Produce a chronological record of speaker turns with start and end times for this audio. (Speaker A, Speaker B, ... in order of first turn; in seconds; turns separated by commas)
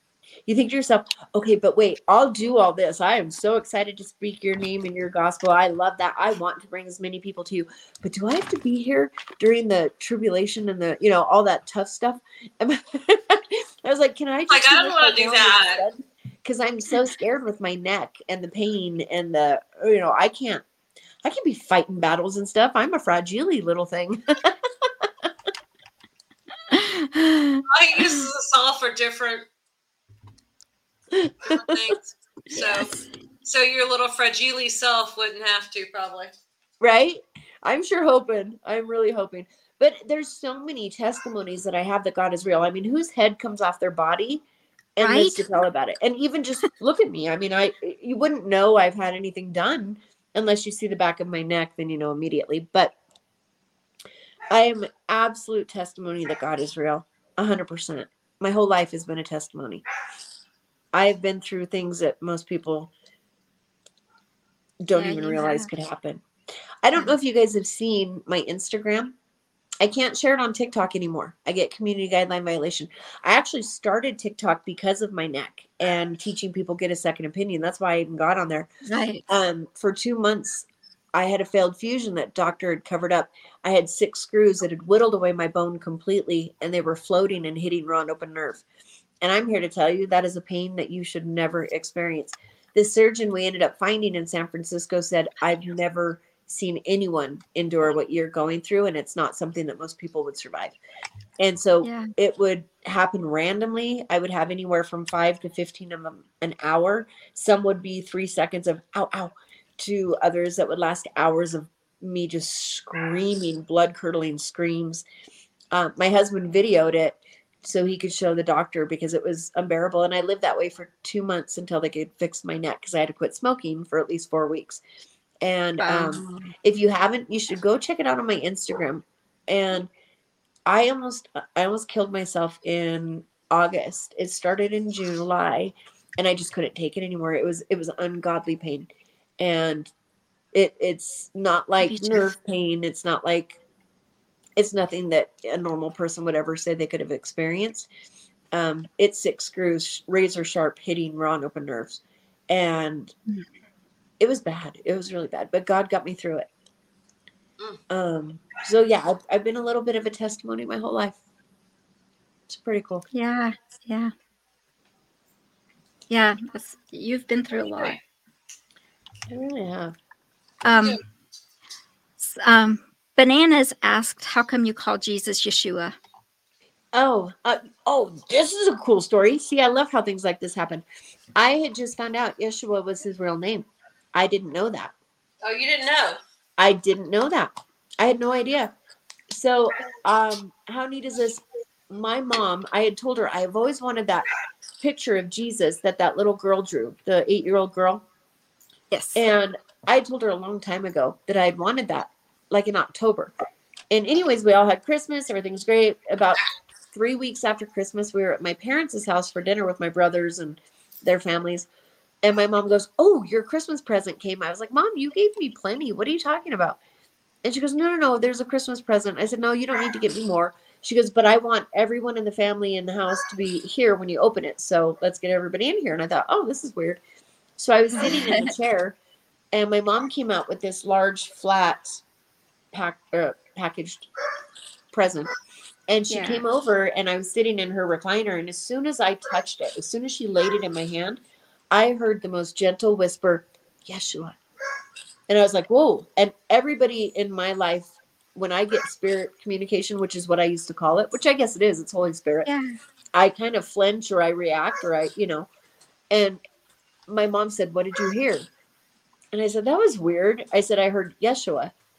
Speaker A: 0.5-20.6, Speaker B: 14.5-15.8, Speaker A: 21.2-25.3, Speaker C: 26.7-28.3, Speaker B: 27.7-29.5, Speaker A: 31.1-31.9, Speaker B: 31.5-32.9, Speaker C: 32.5-33.0, Speaker B: 33.4-36.3, Speaker A: 36.8-44.4, Speaker A: 45.0-52.9, Speaker C: 45.0-45.5, Speaker A: 54.5-59.8, Speaker A: 60.9-62.9, Speaker A: 64.8-66.2, Speaker C: 64.9-65.7, Speaker A: 66.8-69.1, Speaker A: 69.8-78.7, Speaker C: 78.8-79.2, Speaker A: 79.3-88.6, Speaker A: 89.2-100.8, Speaker A: 101.4-115.0, Speaker C: 101.8-102.1, Speaker A: 115.7-124.8, Speaker A: 125.4-129.9, Speaker C: 125.8-126.5, Speaker A: 130.7-139.9, Speaker A: 140.5-143.6, Speaker C: 141.8-142.2, Speaker A: 144.6-147.9, Speaker A: 148.5-153.1, Speaker A: 154.2-156.5, Speaker A: 157.9-161.2, Speaker A: 162.5-163.1, Speaker C: 163.1-164.1, Speaker C: 166.1-168.0, Speaker B: 167.6-168.0, Speaker A: 169.3-169.9, Speaker C: 170.6-171.0, Speaker B: 170.7-171.0, Speaker C: 172.2-175.9, Speaker A: 176.9-180.8, Speaker A: 181.4-184.9, Speaker B: 185.4-186.2, Speaker A: 186.6-188.7, Speaker A: 189.3-194.3, Speaker A: 194.8-198.0, Speaker C: 198.9-199.2, Speaker A: 199.1-203.3, Speaker A: 203.9-206.4, Speaker A: 206.9-211.7, Speaker A: 212.2-216.8, Speaker A: 217.4-227.0, Speaker A: 227.6-228.9, Speaker C: 227.9-228.5, Speaker A: 229.5-232.0, Speaker A: 232.7-234.1, Speaker A: 234.9-235.3, Speaker A: 235.9-244.4, Speaker C: 236.1-236.4, Speaker A: 245.3-252.5, Speaker C: 252.4-252.7, Speaker A: 253.1-255.5, Speaker A: 256.1-256.4, Speaker A: 257.1-258.5, Speaker A: 259.3-261.7